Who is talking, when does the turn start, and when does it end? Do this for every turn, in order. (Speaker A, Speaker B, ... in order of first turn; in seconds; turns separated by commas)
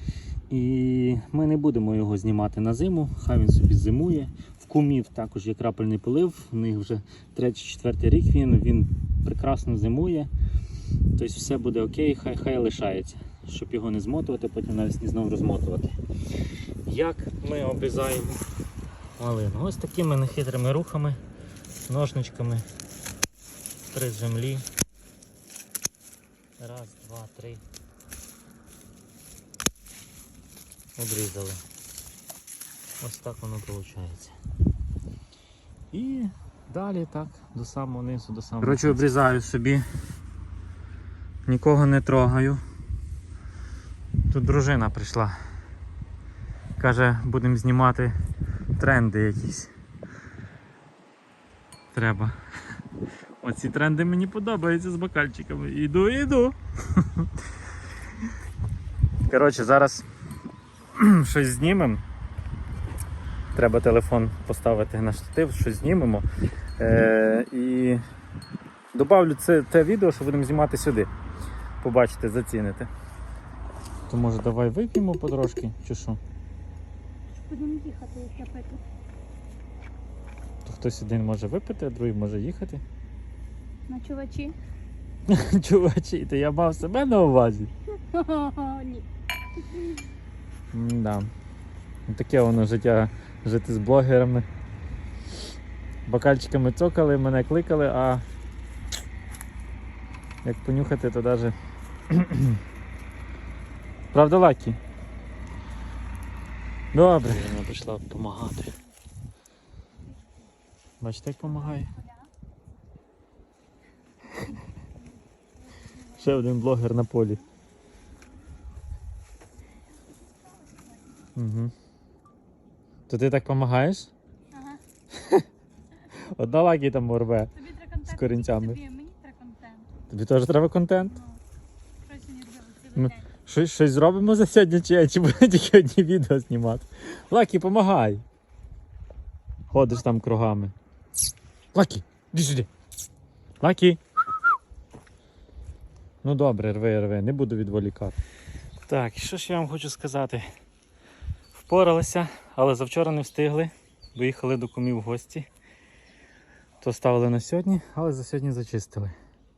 Speaker A: 0.5-10.3, Speaker A: 11.1-16.0, Speaker A: 16.9-18.4, Speaker A: 19.2-21.2, Speaker A: 21.9-22.6, Speaker A: 23.9-24.7, Speaker A: 26.6-27.6, Speaker A: 30.9-31.6, Speaker A: 33.0-34.4, Speaker A: 35.9-39.8, Speaker A: 41.5-42.6, Speaker A: 44.3-45.4, Speaker A: 46.8-48.1, Speaker A: 48.7-49.7, Speaker A: 51.9-52.4, Speaker A: 53.4-57.3, Speaker A: 59.3-60.1, Speaker A: 60.9-62.0, Speaker A: 63.5-66.2, Speaker A: 66.8-68.0, Speaker A: 68.9-71.1, Speaker A: 71.8-72.9, Speaker A: 74.1-76.2, Speaker B: 77.4-78.8, Speaker A: 80.6-82.8, Speaker B: 83.9-84.5, Speaker A: 85.3-87.7, Speaker B: 88.1-89.1, Speaker A: 90.7-91.3, Speaker A: 92.1-94.5, Speaker A: 96.1-98.2, Speaker A: 100.4-101.5, Speaker A: 102.1-102.6, Speaker A: 104.1-104.8, Speaker A: 106.9-108.7, Speaker A: 111.0-112.0, Speaker A: 116.0-117.4, Speaker B: 120.3-121.0, Speaker A: 121.3-121.7, Speaker A: 123.1-124.1, Speaker B: 124.5-124.8, Speaker A: 125.1-125.4, Speaker A: 126.1-128.8, Speaker B: 127.6-129.9, Speaker A: 130.1-131.2, Speaker B: 132.0-133.2, Speaker A: 132.9-138.2, Speaker A: 139.7-140.7, Speaker A: 141.7-142.7, Speaker A: 143.6-144.0, Speaker A: 146.2-148.2, Speaker A: 148.9-150.5, Speaker A: 151.5-155.5, Speaker A: 156.8-159.1